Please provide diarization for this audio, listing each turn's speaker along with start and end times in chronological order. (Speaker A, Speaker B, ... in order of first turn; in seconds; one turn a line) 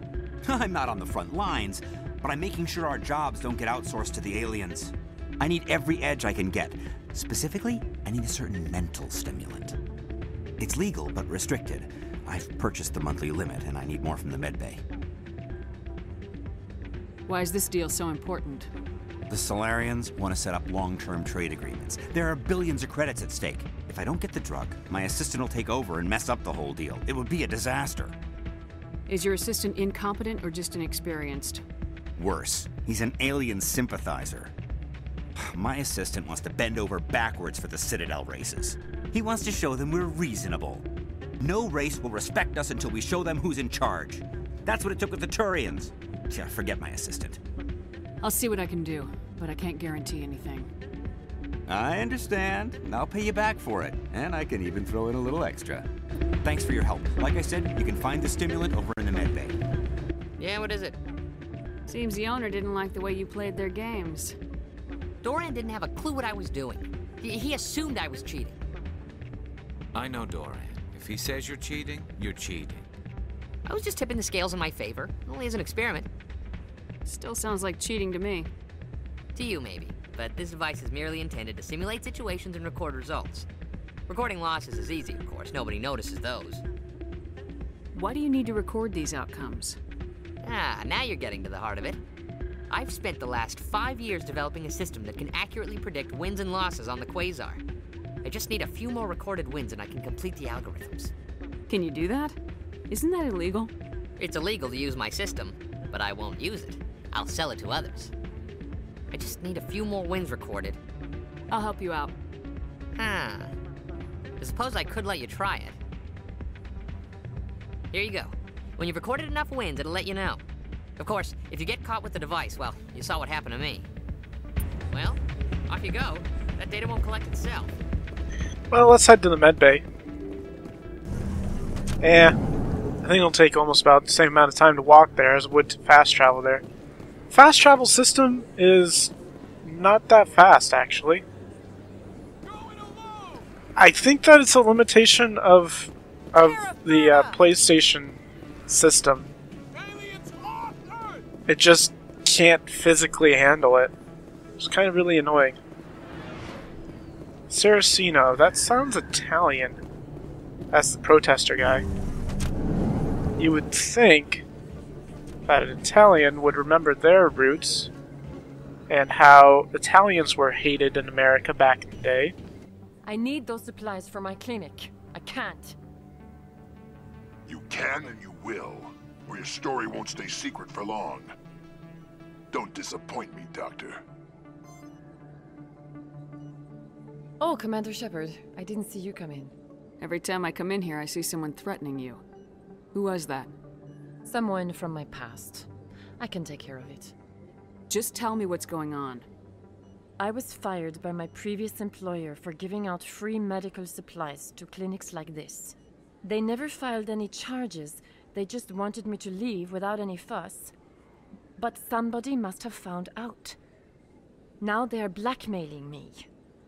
Speaker A: 0.4-9.8
Speaker A: 10.6-14.8
Speaker B: 17.3-18.7
Speaker A: 19.3-28.1
Speaker B: 29.1-31.6
Speaker A: 32.2-34.5
Speaker A: 35.4-40.9
Speaker A: 41.4-47.4
Speaker B: 48.2-50.7
Speaker A: 51.7-55.9
Speaker A: 56.4-59.5
Speaker C: 60.4-61.0
Speaker B: 61.9-64.3
Speaker C: 65.2-68.6
Speaker D: 69.9-72.8
Speaker C: 73.7-76.1
Speaker B: 77.0-78.5
Speaker C: 79.3-83.5
Speaker C: 84.1-86.6
Speaker B: 87.9-89.8
Speaker C: 90.4-92.0
Speaker C: 92.7-97.6
Speaker C: 98.2-101.1
Speaker B: 101.7-102.4
Speaker B: 102.9-103.7
Speaker C: 104.2-108.1
Speaker C: 109.1-110.8
Speaker B: 111.5-112.1
Speaker C: 112.9-113.5
Speaker C: 114.4-115.8
Speaker C: 117.9-120.4
Speaker C: 121.0-123.9
Speaker C: 124.9-127.8
Speaker E: 128.7-129.8
Speaker E: 132.0-132.3
Speaker E: 133.0-136.6
Speaker E: 137.3-139.1
Speaker E: 139.6-141.2
Speaker E: 143.8-149.3
Speaker E: 151.5-153.9
Speaker E: 154.6-155.6
Speaker E: 157.5-159.8
Speaker E: 160.7-161.8
Speaker E: 163.4-164.4
Speaker E: 165.5-167.9
Speaker E: 168.9-172.3
Speaker F: 173.0-175.8
Speaker G: 177.5-181.3
Speaker G: 182.5-184.0
Speaker F: 187.4-189.5
Speaker B: 190.0-192.2
Speaker B: 192.9-193.5
Speaker F: 194.2-195.7
Speaker F: 196.2-197.1
Speaker B: 197.9-199.2
Speaker F: 200.2-210.7
Speaker F: 211.6-213.6
Speaker F: 214.6-216.3